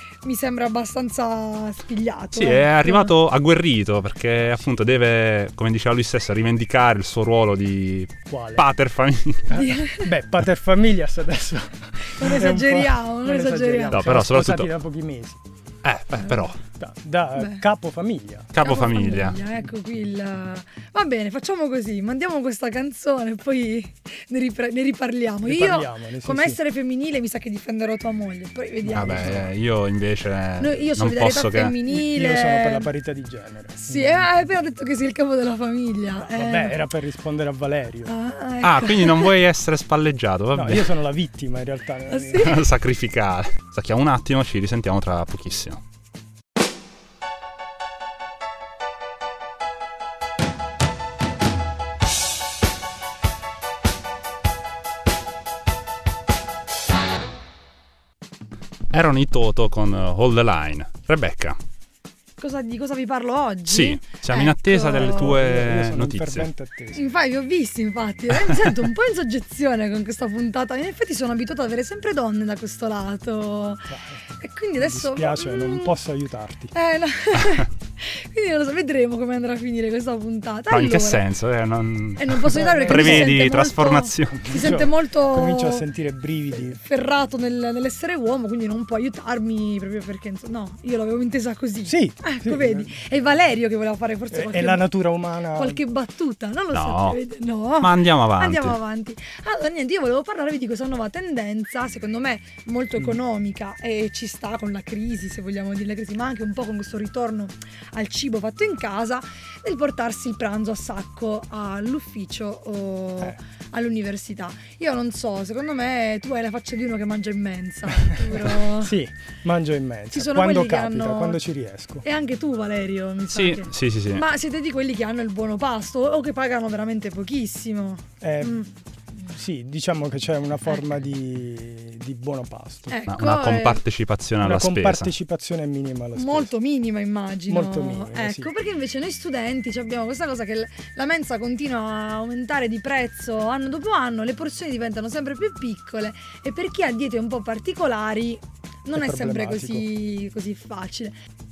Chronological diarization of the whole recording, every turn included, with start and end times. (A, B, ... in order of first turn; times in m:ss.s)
0:00.2-0:03.1 A
0:02.3-0:09.5 B
0:08.3-0:08.6 C
0:09.5-0:15.4 C
0:09.5-0:10.1 A
0:12.0-0:14.2 A
0:13.9-0:14.7 B
0:15.8-0:16.6 B
0:16.2-0:16.6 A
0:16.7-0:18.5 C
0:17.4-0:17.6 A
0:18.5-0:19.4 B
0:18.6-0:29.4 A
0:25.5-0:26.6 C
0:28.9-0:29.5 C
0:28.9-0:31.8 B
0:30.6-0:32.9 A
0:31.9-0:34.3 C
0:33.8-0:36.8 A
0:36.3-0:38.1 C
0:38.0-0:39.3 A
0:38.6-0:40.9 B
0:40.5-0:42.5 C
0:42.1-0:42.6 A
0:42.4-0:45.8 B
0:58.9-1:01.6 B
1:02.4-1:05.4 A
1:03.7-1:06.5 B
1:04.9-1:07.0 C
1:06.9-1:16.0 A
1:13.9-1:14.2 C
1:14.8-1:16.7 C
1:16.7-1:21.2 A
1:20.7-1:24.5 B
1:22.2-1:25.9 A
1:22.5-1:23.5 C
1:24.3-1:26.8 C
1:26.6-1:34.9 A
1:31.9-1:33.0 C
1:34.3-1:35.8 C
1:35.5-1:59.0 A
1:36.7-1:37.2 B
1:37.8-1:38.8 B
1:58.0-2:02.0 C
2:00.1-2:01.4 A
2:02.0-2:08.7 A
2:03.3-2:04.2 B
2:08.2-2:08.7 C
2:09.2-2:13.0 C
2:12.9-2:13.8 A
2:13.1-2:15.1 B
2:14.4-2:16.5 C
2:16.2-2:31.2 A
2:17.5-2:18.5 C
2:28.9-2:29.9 C